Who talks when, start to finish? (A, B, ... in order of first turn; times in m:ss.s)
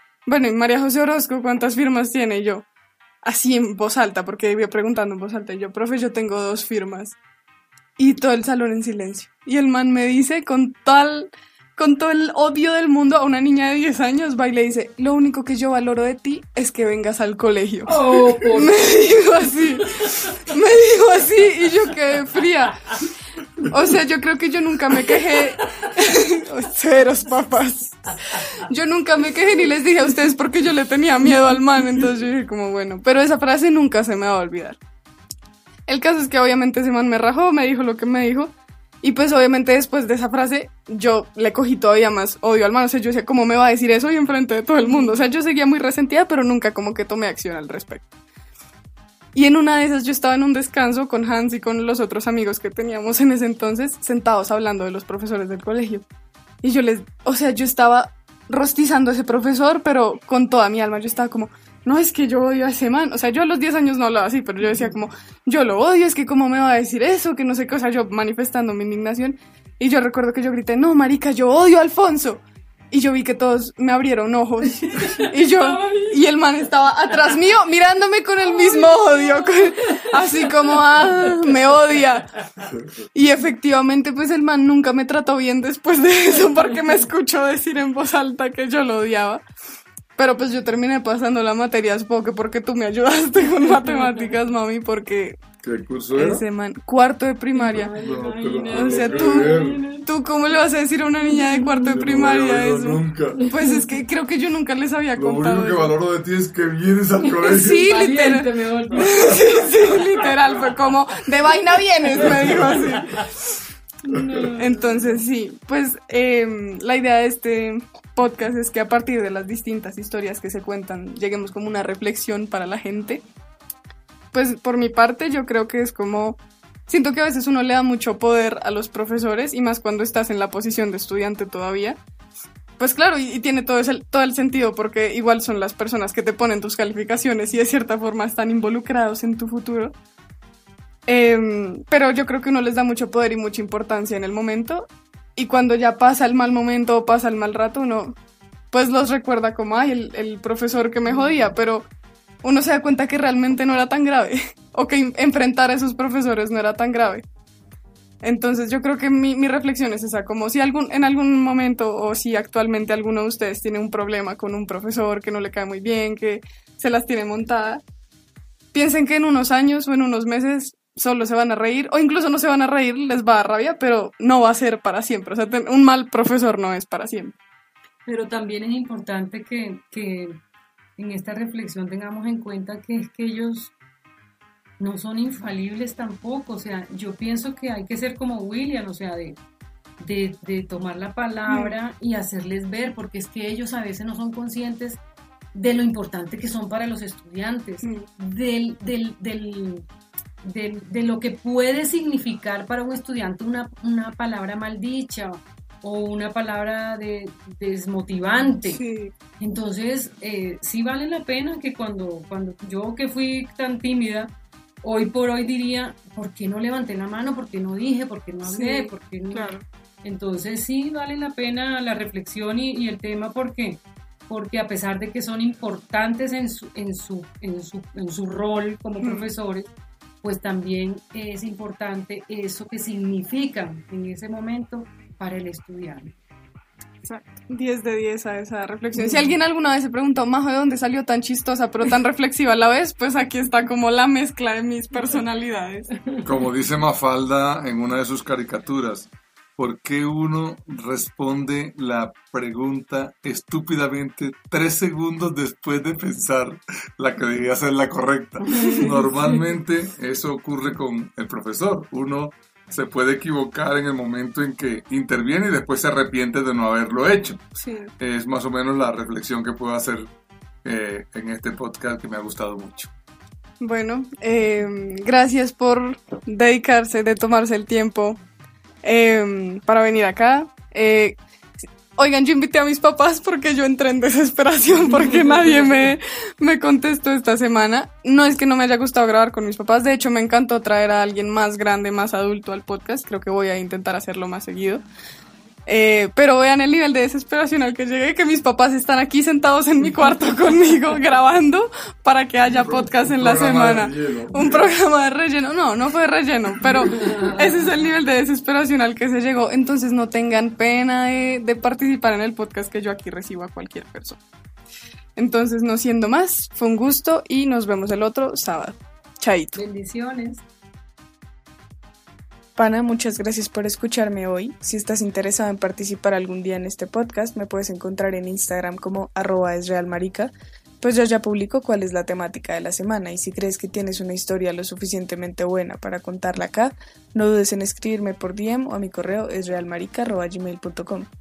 0:00.2-0:02.6 A
0:03.2-0:07.2 A
0:08.0-0:22.8 A
0:17.8-0:19.1 B
0:19.8-0:20.3 B
0:23.6-0:34.8 A
0:25.1-0:25.4 B
0:35.9-0:48.0 A
0:44.8-0:45.2 B
0:49.3-0:56.0 A
0:56.6-1:22.3 A
1:14.9-1:16.2 B
1:18.5-1:21.5 B
1:23.1-1:29.4 A
1:30.2-1:35.4 A
1:33.7-1:34.1 B
1:35.6-1:36.4 C
1:36.1-1:37.9 A
1:37.5-1:40.0 B
1:37.7-1:39.8 C
1:38.7-1:45.9 A
1:41.3-1:41.8 B
1:41.7-1:43.4 C
1:43.4-1:43.8 B
1:45.2-1:47.9 C
1:47.3-1:50.2 B
1:47.4-1:53.5 A
1:52.2-1:53.2 B
1:54.1-1:55.1 B
1:54.1-2:03.2 A
2:04.3-2:12.0 A
2:12.8-2:19.9 A
2:21.1-2:28.2 A
2:28.7-2:31.9 A
2:32.4-2:37.2 A
2:38.2-2:47.8 A
2:48.7-2:57.3 A
2:58.0-3:00.4 B
3:01.0-3:03.7 B
3:04.8-3:09.4 B
3:10.0-3:15.0 B
3:11.5-3:11.7 A
3:15.5-3:19.8 B
3:20.4-3:28.8 B
3:28.6-3:29.1 A
3:29.4-3:39.5 B
3:38.4-3:39.6 A
3:40.0-3:49.7 B
3:49.0-3:49.3 A
3:50.2-3:56.1 B
3:57.0-4:05.9 A
3:59.0-3:59.3 B
4:06.2-4:27.4 C
4:18.5-4:19.0 A
4:18.5-4:19.2 B
4:27.6-4:27.9 A
4:28.0-4:30.1 C
4:30.6-4:32.9 C
4:33.6-4:38.2 A
4:38.8-4:41.2 A
4:41.9-4:54.8 A
4:55.6-5:14.2 A
5:02.5-5:04.7 C
5:15.2-5:19.6 A
5:19.5-5:20.4 B
5:22.6-5:30.3 A
5:30.8-5:41.1 A